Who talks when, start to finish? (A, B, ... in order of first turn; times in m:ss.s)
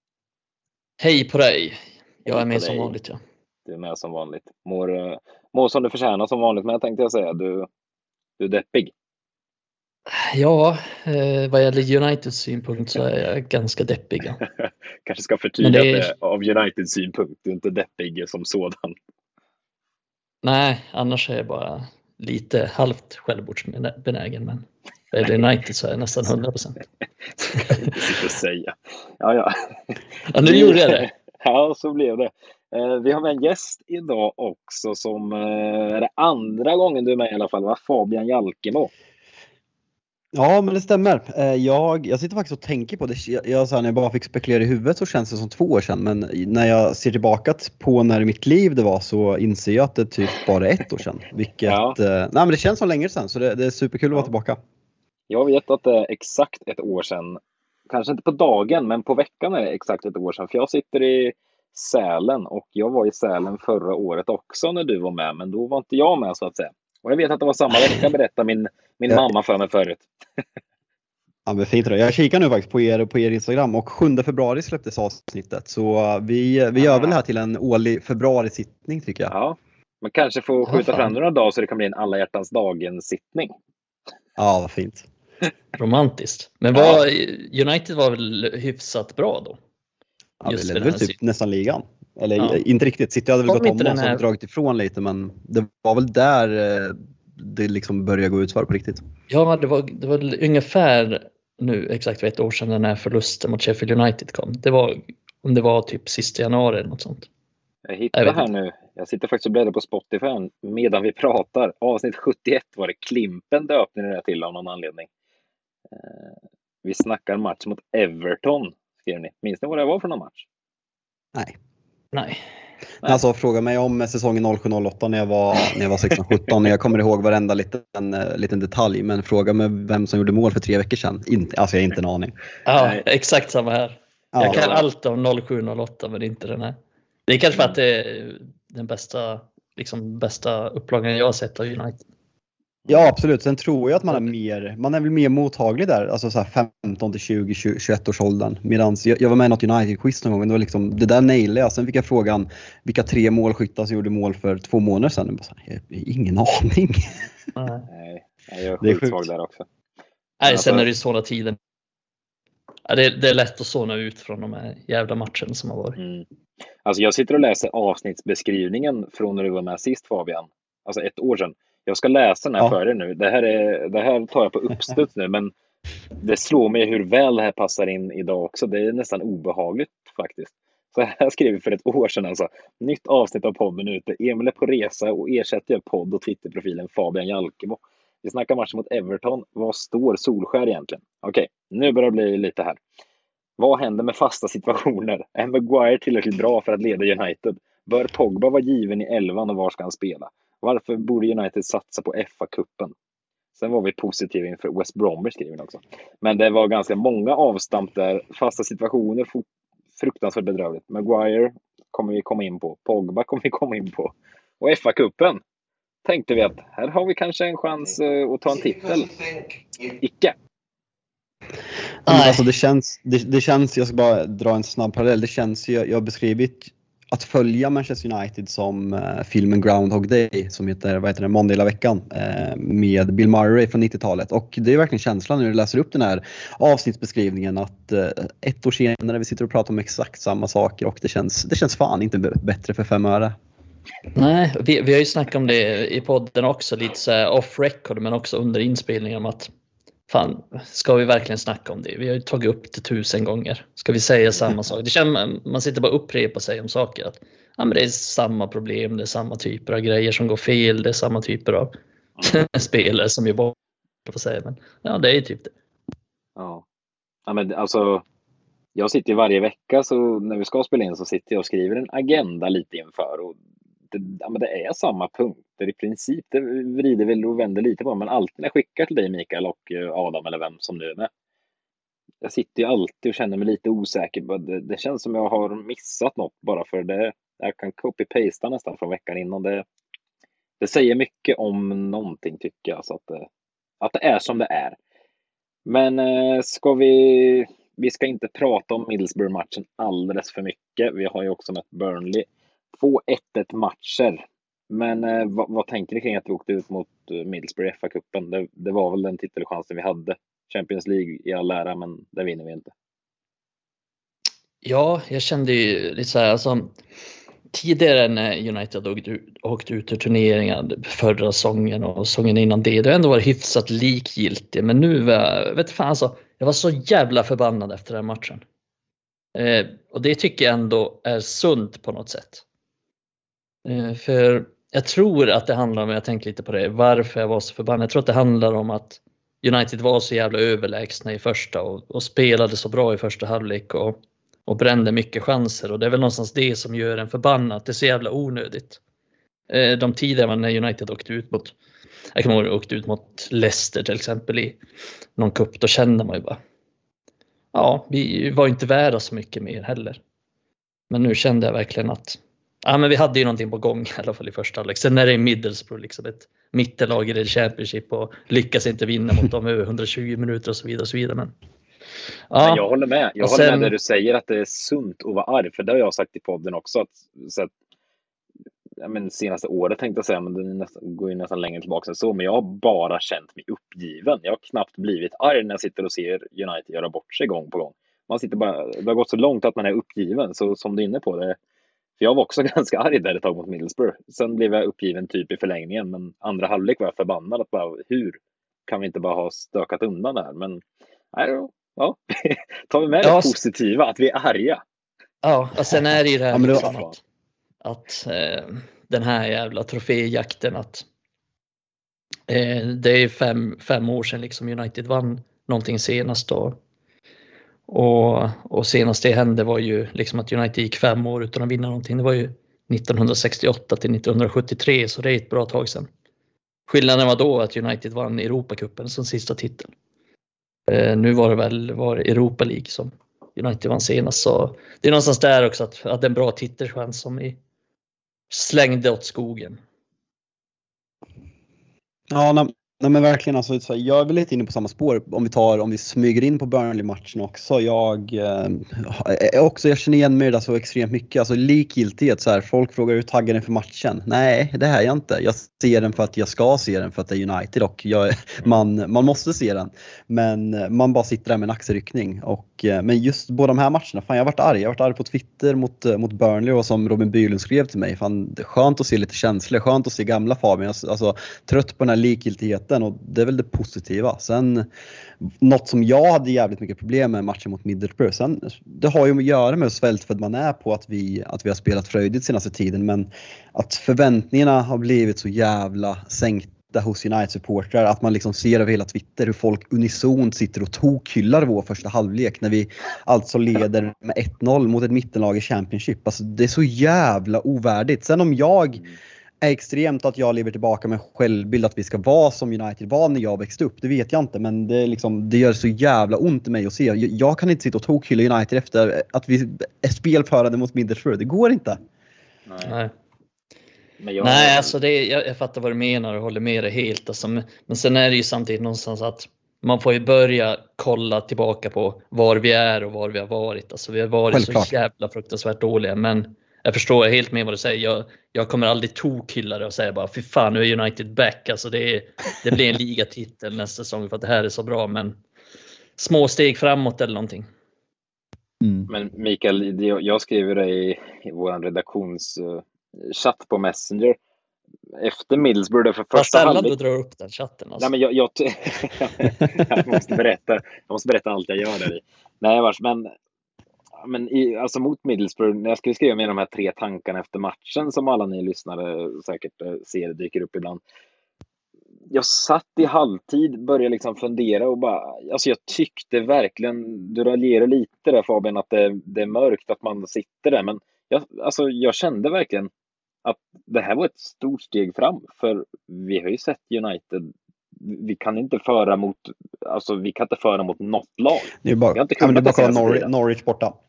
0:01.0-0:03.2 A
0:02.3-0:02.9 B
0:03.7-0:07.7 B
0:08.4-0:08.9 B
0:10.1-0:14.4 A
0:14.4-0:19.0 B
0:15.6-0:16.1 A
0:20.4-0:26.8 A
0:27.5-0:28.0 A
0:27.6-0:38.9 B
0:30.3-0:31.1 A
0:40.3-0:54.6 C
0:51.6-0:52.0 B
0:55.3-1:10.1 B
1:11.5-1:19.3 C
1:16.8-1:17.2 B
1:19.3-1:23.5 B
1:20.7-1:21.1 A
1:24.4-1:25.1 C
1:25.8-1:29.6 A
1:26.7-1:27.0 B
1:30.4-1:39.0 C
1:30.5-1:31.2 A
1:32.4-1:32.6 A
1:33.5-1:34.2 A
1:39.3-1:47.3 A
1:47.9-1:55.1 B
1:48.2-1:48.4 A
1:55.9-2:00.5 B
2:02.1-2:02.4 A
2:03.0-2:12.4 C
2:12.7-2:16.8 A
2:12.8-2:13.0 B
2:14.3-2:14.6 C
2:14.5-2:14.8 B
2:17.3-2:22.0 A
2:22.9-2:37.2 C
2:37.6-2:37.9 A
2:37.9-2:39.7 B
2:38.8-2:39.3 C
2:40.4-2:41.6 A
2:40.4-2:40.9 B
2:42.9-2:46.0 A
2:46.0-2:46.2 B
2:46.8-2:55.5 B
2:56.2-3:12.8 B
3:13.6-3:22.9 B
3:23.6-3:29.4 B
3:30.0-3:35.4 B
3:36.0-3:39.2 B
3:39.8-3:40.3 B
3:42.1-3:42.5 A
3:42.1-4:03.4 C
4:04.2-4:09.5 A
4:10.1-4:21.7 A
4:22.2-4:23.5 A
4:24.1-4:25.5 A
4:26.4-4:26.6 B
4:27.3-4:28.0 B
4:28.8-4:33.4 B
4:33.9-4:41.1 B
4:42.2-4:49.6 B
4:50.6-4:53.3 B
4:53.8-4:54.8 B
4:55.7-5:12.7 B
5:14.6-5:16.8 A
5:17.5-5:28.4 A
5:29.4-5:32.4 A
5:33.6-5:48.8 A
5:49.5-5:51.5 A
5:52.2-5:54.6 A
5:55.2-5:56.4 A
5:57.5-6:00.0 A
6:00.9-6:11.3 A
6:12.3-6:12.6 A
6:12.4-6:17.5 B
6:13.2-6:13.7 A
6:18.8-6:31.4 B
6:32.0-6:40.6 B
6:41.1-6:44.6 B
6:43.0-6:43.3 A
6:45.2-6:47.0 A
6:46.3-6:46.7 C
6:46.4-6:46.9 B
6:47.6-6:50.9 A
6:52.3-6:56.6 A
6:57.7-7:05.9 A
7:06.7-7:09.7 A
7:10.7-7:17.4 A
7:18.3-7:19.6 A
7:22.1-7:54.7 C
7:55.2-8:18.8 C
8:19.4-8:31.8 C
8:32.5-8:32.7 B
8:32.6-8:32.9 A
8:34.0-8:34.7 B
8:34.2-8:55.2 A
8:44.3-8:44.7 C
8:56.0-8:57.5 A
8:58.6-8:58.9 C
8:58.9-9:04.2 B
9:05.0-9:06.7 B
9:06.2-9:07.9 A
9:07.8-9:13.1 B
9:14.0-9:20.8 B
9:22.1-9:32.7 B
9:33.2-9:43.1 B
9:41.6-9:43.7 C